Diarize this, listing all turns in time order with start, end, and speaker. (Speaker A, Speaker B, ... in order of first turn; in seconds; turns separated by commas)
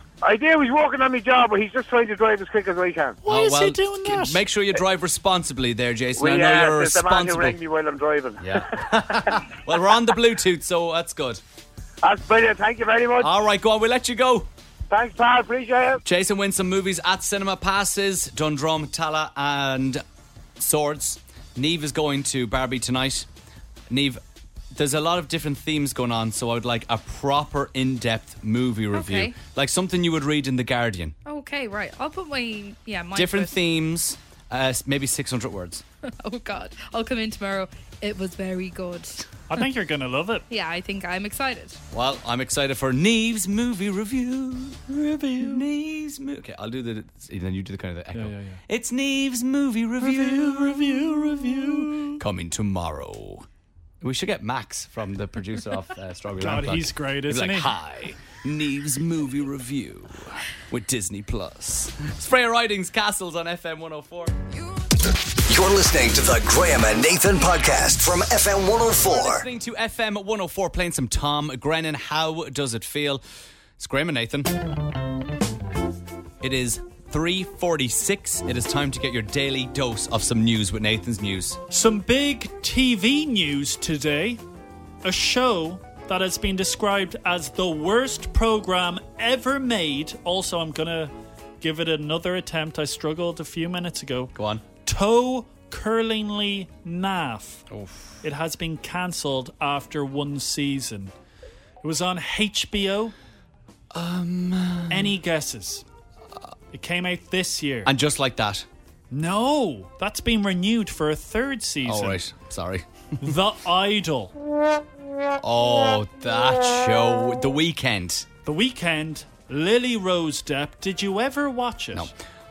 Speaker A: 0.2-3.2, Speaker B: 3.2-4.4, Speaker C: 3.3-7.6, Speaker A: 6.1-8.9, Speaker C: 8.4-11.4, Speaker A: 12.0-13.3, Speaker C: 13.2-14.5, Speaker A: 14.9-16.0, Speaker C: 16.0-20.0, Speaker C: 20.6-23.3, Speaker C: 23.9-24.2, Speaker C: 24.7-31.1, Speaker D: 28.9-29.4, Speaker D: 31.2-33.5, Speaker C: 33.1-35.8, Speaker D: 36.2-39.2, Speaker B: 39.5-40.4, Speaker D: 40.5-41.8, Speaker C: 41.9-44.8, Speaker B: 44.9-45.6, Speaker C: 45.4-53.5, Speaker B: 48.1-48.6, Speaker B: 50.0-52.2, Speaker C: 54.0-64.3, Speaker B: 56.4-57.7, Speaker E: 65.5-69.5, Speaker C: 69.0-73.2, Speaker C: 73.8-74.5, Speaker C: 76.4-81.6, Speaker B: 81.7-84.4, Speaker B: 85.0-94.3, Speaker C: 94.3-94.6, Speaker B: 94.8-97.6, Speaker C: 97.7-98.2, Speaker B: 98.2-101.1, Speaker B: 101.8-103.1, Speaker C: 103.9-105.1, Speaker B: 104.9-105.8, Speaker B: 106.7-107.9, Speaker C: 107.8-108.7, Speaker B: 109.1-112.2, Speaker C: 111.8-113.3, Speaker B: 113.2-114.3, Speaker C: 115.4-118.2, Speaker B: 118.4-122.1